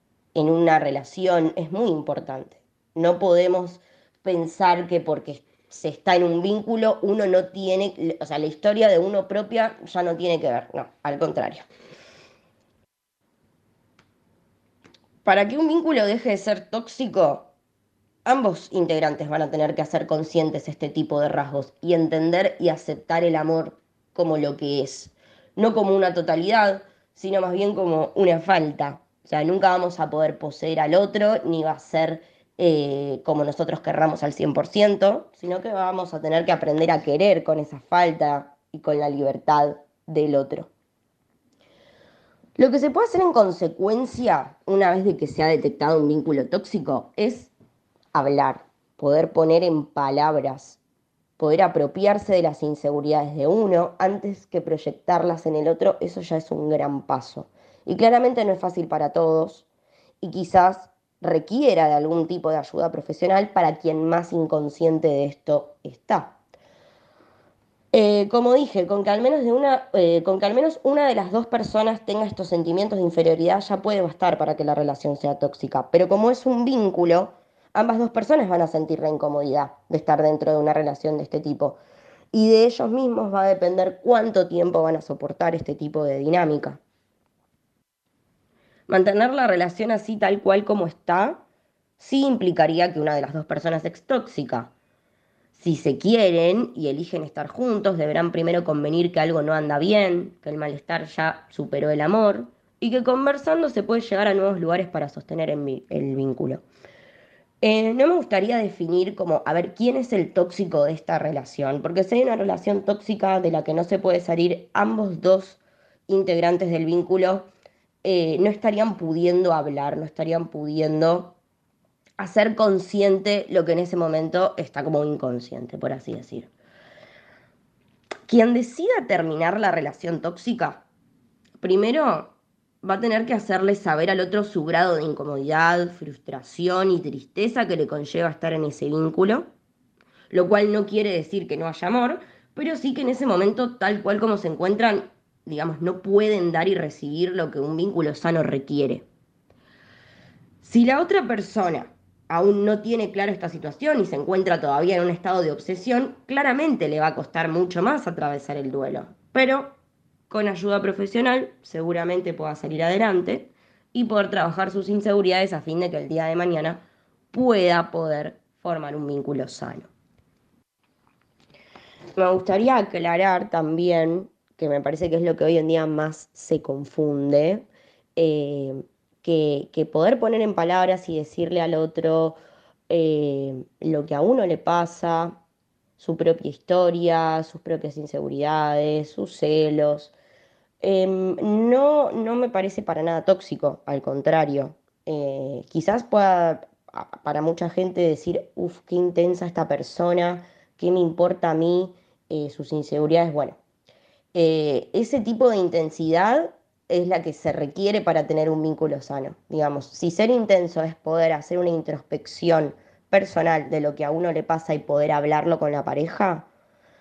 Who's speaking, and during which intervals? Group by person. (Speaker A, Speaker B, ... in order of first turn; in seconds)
Speaker A: 0.3-11.6, 15.2-17.5, 18.2-40.7, 42.6-47.5, 48.1-50.8, 51.4-59.6, 60.2-66.3, 67.9-81.8, 82.3-86.8, 88.9-91.4, 92.0-94.7, 95.5-106.6, 107.6-117.5, 118.0-121.3, 122.2-126.5, 128.3-130.8, 131.6-139.5, 140.3-149.0, 150.6-159.8, 160.3-169.9, 172.2-185.4, 186.0-190.1, 190.8-203.6, 204.3-216.5